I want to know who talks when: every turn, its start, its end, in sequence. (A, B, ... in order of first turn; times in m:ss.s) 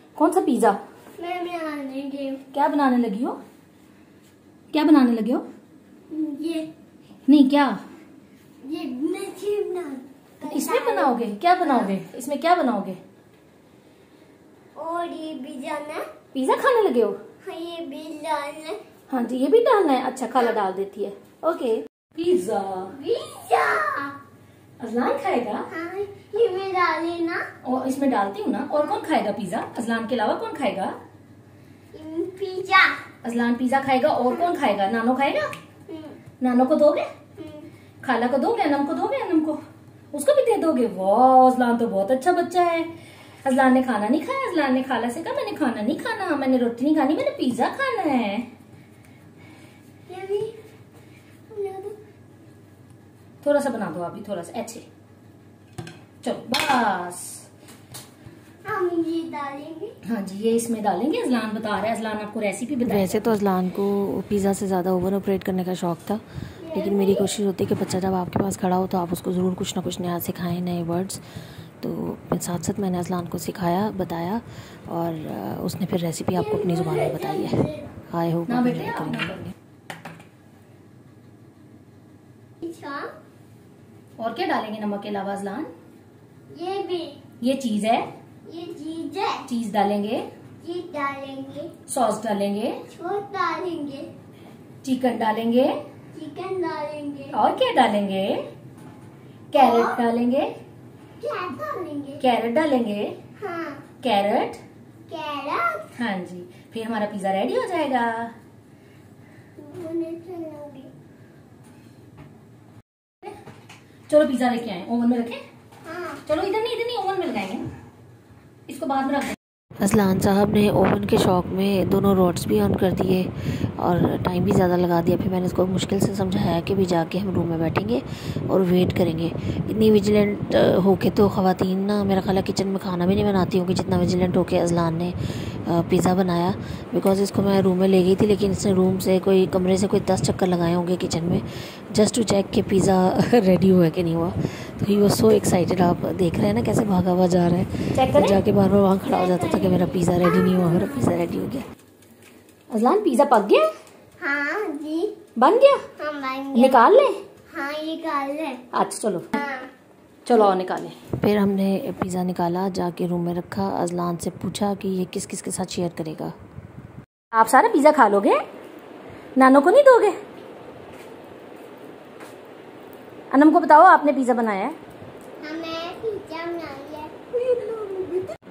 0:00.2-0:00.8 A
0:01.2-0:02.4 B
0:02.5-0:03.4 A
0:04.7-0:05.4 A
0:06.1-0:06.7 B
0:07.3-0:07.8 A
0:08.6-0:11.9 B
0:10.5-0:13.0 A
0:14.8-0:16.0 B
0:16.3-0:17.2 A
0:17.4-0:18.8 B
0:19.1-0:22.9 A
0:22.9-0:24.2 B
0:24.8-0:25.7 A
0:25.7-0:27.4 B
0:27.6-0:30.9 A
0:31.9-0:33.0 B
0:33.2-0:35.5 A
0:35.9-0:36.2 B
0:36.4-0:37.1 A
0:37.4-0:37.7 B
0:38.0-0:39.6 A
0:40.1-0:42.9 A
0:43.4-0:48.5 A
0:50.1-0:50.5 B
0:51.5-0:52.0 B
0:53.4-0:54.8 A
0:56.2-0:57.4 A
0:58.6-0:59.9 B
1:00.0-1:03.4 A
1:02.8-1:06.2 C
1:06.6-1:07.2 B
1:06.7-1:11.2 C
1:11.8-1:19.4 C
1:16.3-1:17.9 B
1:18.5-1:19.5 A
1:22.6-1:23.1 B
1:24.2-1:25.7 A
1:26.5-1:27.2 B
1:27.4-1:28.1 A
1:28.5-1:29.4 B
1:29.4-1:30.2 A
1:30.6-1:31.7 B
1:31.9-1:32.7 A
1:32.9-1:34.1 B
1:34.8-1:35.8 A
1:36.1-1:37.3 B
1:37.3-1:38.5 A
1:39.5-1:40.5 A
1:39.5-1:40.0 B
1:41.2-1:42.2 B
1:42.2-1:43.1 A
1:43.4-1:43.8 B
1:44.0-1:44.6 A
1:45.1-1:45.9 B
1:46.0-1:48.3 A
1:49.6-1:50.9 B
1:54.1-1:55.4 A
1:55.8-1:56.2 B
1:56.2-1:57.7 A
1:58.7-1:59.4 A
1:59.8-2:31.7 C
2:27.9-2:28.4 A
2:29.1-2:31.1 B
2:32.7-2:33.7 A
2:34.2-2:35.1 B
2:35.4-2:35.8 A
2:36.0-2:36.8 B
2:36.5-2:37.2 A
2:37.5-2:38.6 B
2:38.7-2:39.3 A
2:39.3-2:39.7 B
2:40.2-2:41.0 A
2:41.2-2:46.4 C
2:47.3-2:48.4 A
2:49.4-2:50.2 A
2:53.3-2:54.8 A
2:55.4-2:58.2 B